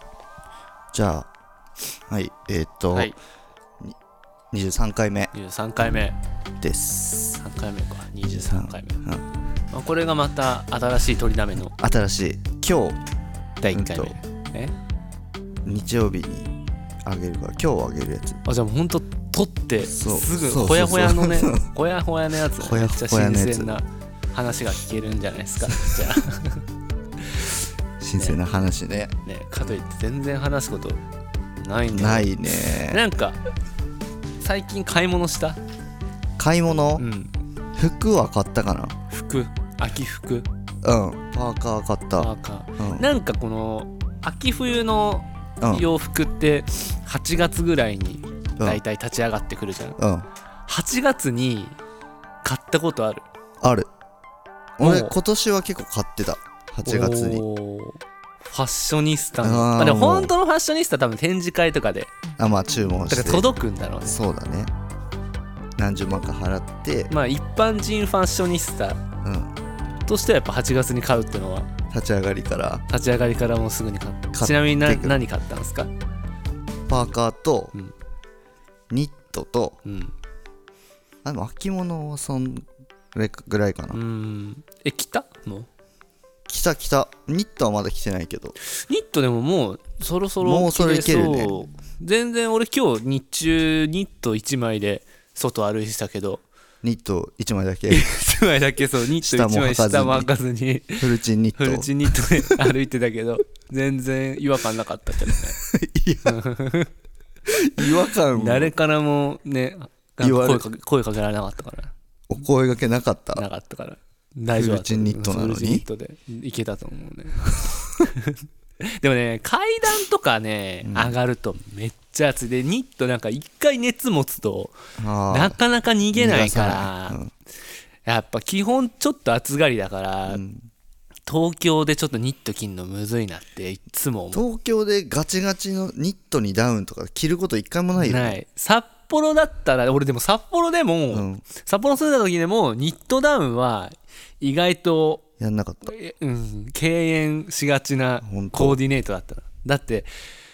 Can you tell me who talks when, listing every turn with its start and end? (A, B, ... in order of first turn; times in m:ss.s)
0:00.9-0:01.3 A
0:02.1-0:03.1 A
0:04.5-0:05.3 A
0:05.3-0:06.2 B
0:06.6-0:07.4 A
0:07.4-0:09.0 B
0:08.2-0:09.2 A
0:09.7-0:11.7 B
0:11.7-0:13.0 A
0:13.6-0:14.7 B
0:13.7-0:14.2 A
0:15.6-0:16.5 A
0:17.0-0:18.4 A
0:18.5-0:26.6 B
0:19.8-0:21.7 A
0:22.6-0:23.8 A
0:28.0-0:29.1 A
0:29.3-0:31.0 B
0:31.6-0:33.4 B
0:31.9-0:33.0 A
0:34.4-0:35.6 B
0:36.4-0:37.0 A
0:37.0-0:37.3 B
0:37.8-0:38.9 A
0:39.1-0:40.5 B
0:40.8-0:43.1 A
0:42.2-0:50.0 B
0:45.6-0:45.9 A
0:50.0-0:50.3 A
0:50.7-0:51.8 B
0:52.4-0:53.3 B
0:53.6-0:53.9 A
0:54.8-0:57.4 A
0:54.8-0:55.2 B
0:56.8-1:02.1 B
0:59.4-1:00.3 A
1:02.4-1:03.5 A
1:03.1-1:04.2 B
1:04.0-1:04.7 A
1:05.8-1:07.1 A
1:07.1-1:09.0 B
1:09.2-1:09.6 A
1:10.1-1:11.7 B
1:11.9-1:12.8 A
1:12.9-1:15.9 B
1:14.3-1:15.2 A
1:16.9-1:17.7 A
1:18.9-1:19.8 A
1:19.8-1:20.1 B
1:21.2-1:24.0 A
1:23.9-1:25.7 B
1:26.5-1:28.6 A
1:28.6-1:36.4 B
1:30.4-1:31.6 A
1:36.8-1:38.1 A
1:37.9-1:45.6 B
1:39.2-1:40.3 A
1:41.0-1:42.7 A
1:45.6-1:46.4 A
1:46.3-1:46.9 B
1:47.5-1:48.7 A
1:47.8-1:51.9 B
1:50.2-1:50.6 A
1:52.3-1:53.4 A
1:53.4-2:04.8 B
1:54.5-1:55.8 A
1:57.5-1:58.1 A
2:00.8-2:01.2 A
2:05.0-2:05.6 A
2:05.3-2:07.2 B
2:06.1-2:07.3 A
2:08.1-2:10.4 B
2:10.3-2:10.7 A
2:11.3-2:14.4 B
2:14.3-2:18.4 A
2:18.0-2:25.2 B
2:21.1-2:21.5 A
2:25.4-2:25.9 A
2:25.8-2:30.1 B
2:28.2-2:28.8 A